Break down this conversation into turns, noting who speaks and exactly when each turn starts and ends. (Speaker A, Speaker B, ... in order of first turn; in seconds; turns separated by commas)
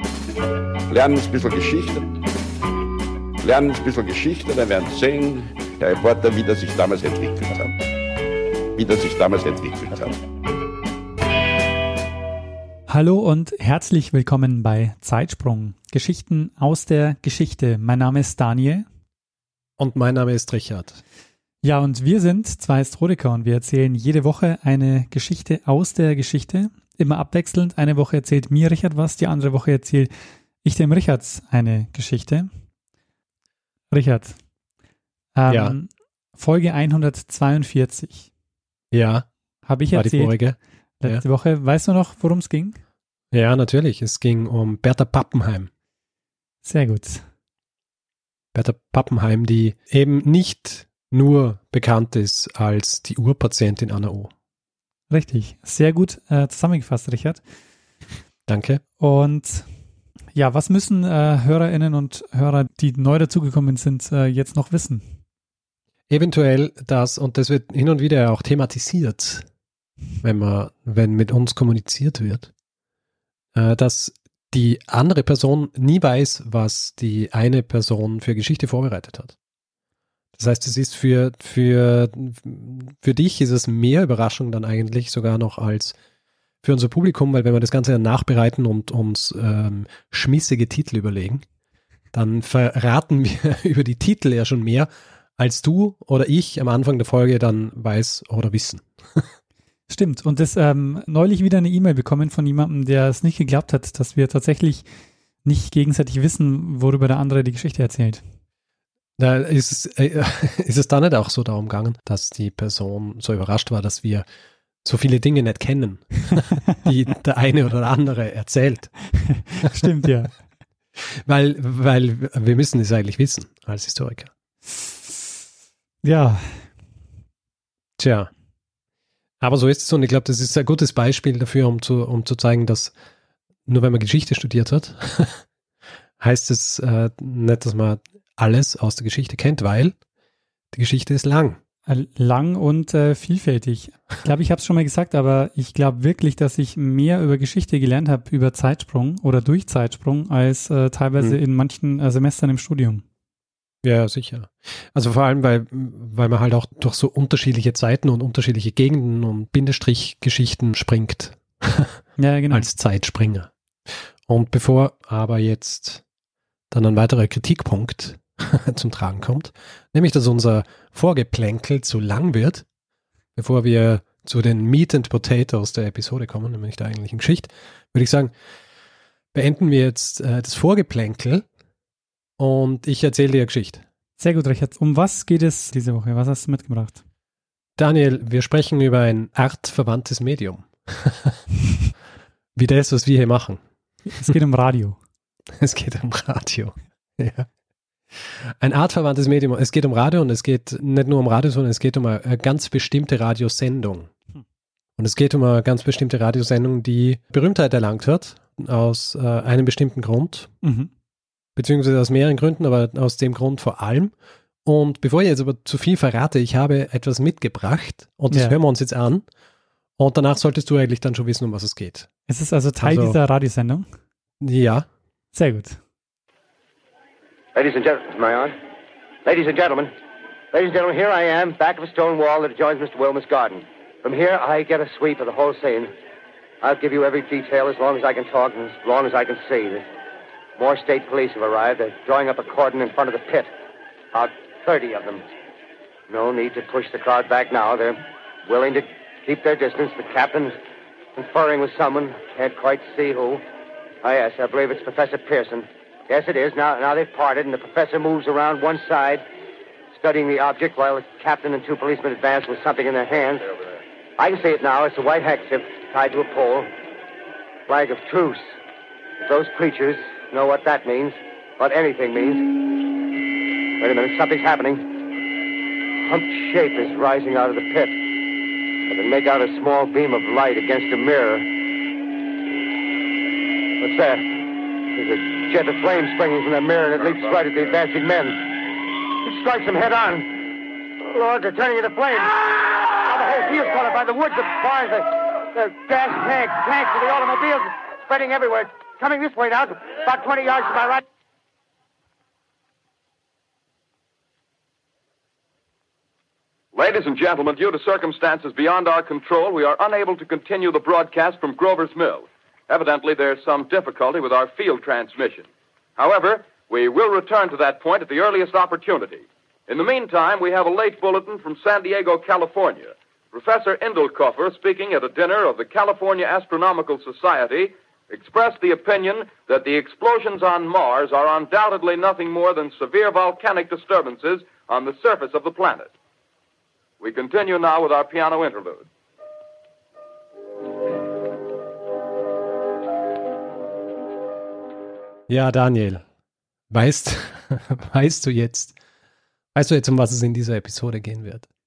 Speaker A: 0.9-2.1, Speaker A: 3.4-7.7, Speaker A: 8.7-10.2, Speaker B: 12.9-18.9, Speaker C: 19.8-21.0, Speaker B: 21.6-32.5, Speaker B: 33.9-34.4, Speaker B: 35.4-38.3, Speaker C: 35.5-35.8, Speaker C: 38.9-39.3, Speaker B: 39.6-42.8, Speaker C: 39.9-41.2, Speaker C: 43.3-45.7, Speaker B: 46.6-47.2, Speaker C: 48.5-54.3, Speaker B: 55.1-57.4, Speaker C: 58.5-58.8, Speaker B: 59.0-59.7, Speaker B: 60.3-65.1, Speaker C: 66.1-69.5, Speaker C: 70.2-72.5, Speaker C: 73.5-79.3, Speaker C: 80.4-85.9, Speaker C: 86.6-91.4, Speaker C: 92.1-99.3, Speaker B: 99.9-104.9, Speaker B: 105.4-108.2, Speaker C: 109.2-114.2, Speaker C: 114.8-119.7, Speaker B: 119.6-120.4, Speaker C: 121.3-124.3, Speaker B: 126.0-126.7, Speaker C: 128.0-128.3, Speaker C: 129.4-132.9, Speaker C: 133.7-135.4, Speaker C: 136.2-139.9, Speaker C: 140.7-141.6, Speaker B: 141.9-153.0, Speaker C: 153.8-162.0, Speaker B: 162.2-162.7, Speaker C: 162.5-163.5, Speaker C: 164.3-166.0, Speaker C: 166.7-172.6, Speaker C: 173.3-178.3, Speaker C: 179.3-181.4, Speaker C: 182.4-183.8, Speaker B: 184.2-187.0, Speaker C: 187.8-191.4, Speaker C: 192.6-193.6, Speaker B: 194.1-195.0, Speaker C: 195.6-197.5, Speaker C: 198.6-204.1, Speaker C: 205.0-210.5, Speaker B: 210.6-210.9, Speaker C: 211.6-214.1, Speaker C: 214.6-219.2, Speaker B: 218.3-218.6, Speaker C: 220.0-222.1, Speaker B: 222.3-223.9, Speaker C: 222.8-223.2, Speaker C: 224.4-224.9, Speaker B: 225.3-225.8, Speaker D: 227.5-228.5, Speaker D: 229.2-229.9, Speaker D: 230.5-235.9, Speaker D: 236.6-239.8, Speaker D: 240.6-243.5, Speaker D: 244.1-245.2, Speaker D: 246.1-250.6, Speaker D: 251.2-253.4, Speaker D: 254.0-259.2, Speaker D: 259.9-263.6, Speaker D: 264.2-266.7, Speaker D: 267.7-268.4, Speaker D: 269.2-272.6, Speaker D: 273.8-274.8, Speaker D: 276.0-278.0, Speaker D: 278.9-281.5, Speaker D: 283.8-301.0, Speaker E: 306.7-335.9, Speaker E: 337.0-338.9, Speaker C: 345.3-346.0, Speaker C: 346.7-348.7, Speaker C: 349.5-351.4